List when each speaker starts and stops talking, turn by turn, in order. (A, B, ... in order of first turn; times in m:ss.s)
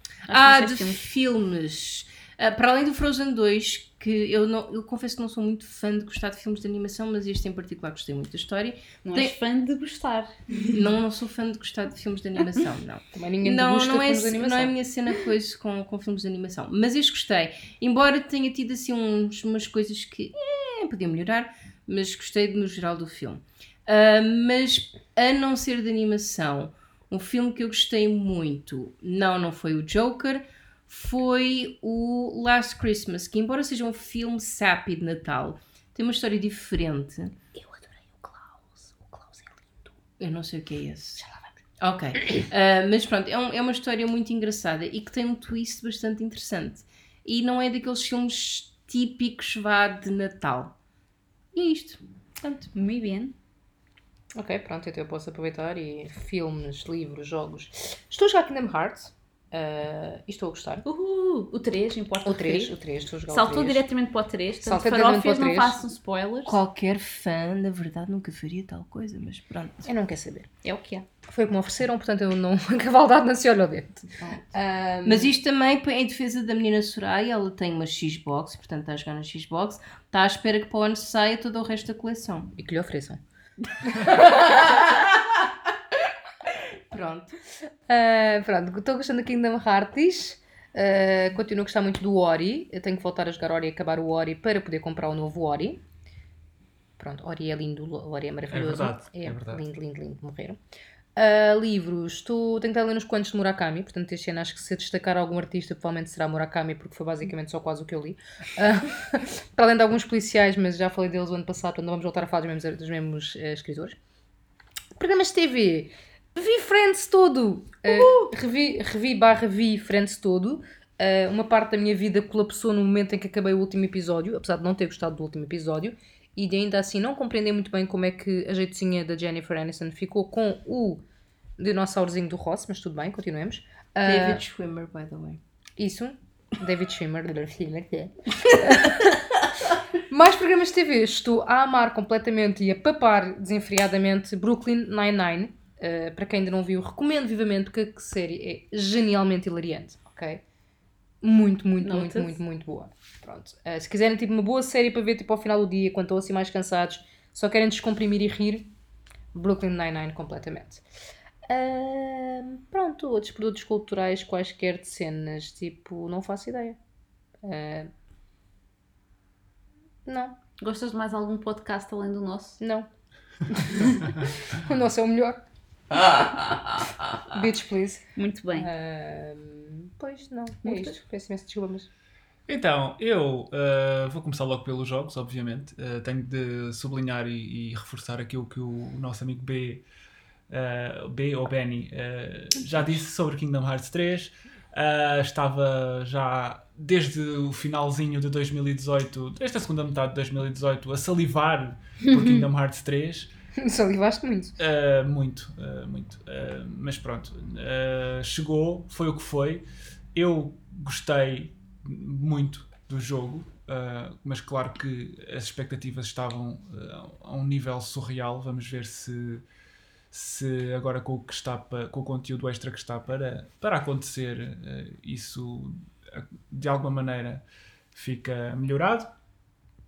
0:00.2-0:09.4 A
0:00.3-0:01.0 B
0:09.0-0:10.8 B
0:10.7-0:37.4 A
0:13.1-0:14.7 C
0:37.6-0:39.4 C
0:40.2-0:41.2 A
0:41.8-0:50.7 A
0:51.6-0:52.6 A
0:52.7-0:53.3 B
0:54.3-1:00.8 C
1:00.8-1:02.7 B
1:02.2-1:03.8 C
1:03.3-1:06.6 B
1:04.6-1:05.8 C
1:06.4-1:09.9 A
1:09.8-1:10.5 C
1:10.6-1:11.1 B
1:11.2-1:15.3 C
1:15.0-1:22.5 A
1:22.6-1:23.2 C
1:23.9-1:24.7 A
1:26.9-1:27.4 A
1:27.9-1:35.8 C
1:37.0-1:40.6 C
1:38.5-1:39.6 D
1:41.2-1:54.0 C
1:55.0-2:11.0 C
1:57.9-1:58.3 A
2:11.6-2:14.4 C
2:14.0-2:15.4 A
2:15.8-2:19.5 C
2:20.1-2:30.4 C
2:31.2-2:38.7 C
2:31.8-2:32.4 B
2:39.3-2:40.8 C
2:41.5-2:46.8 C
2:47.4-2:47.9 C
2:50.0-2:50.4 C
2:50.6-2:52.6 B
2:52.6-2:52.9 C
2:53.5-2:55.4 C
2:57.3-3:01.9 C
2:58.2-2:58.7 B
3:00.6-3:01.0 B
3:02.5-3:09.8 D
3:10.5-3:23.3 D
3:23.6-3:24.5 C
3:24.6-3:39.4 D
3:40.1-3:47.4 D
3:47.9-3:49.1 D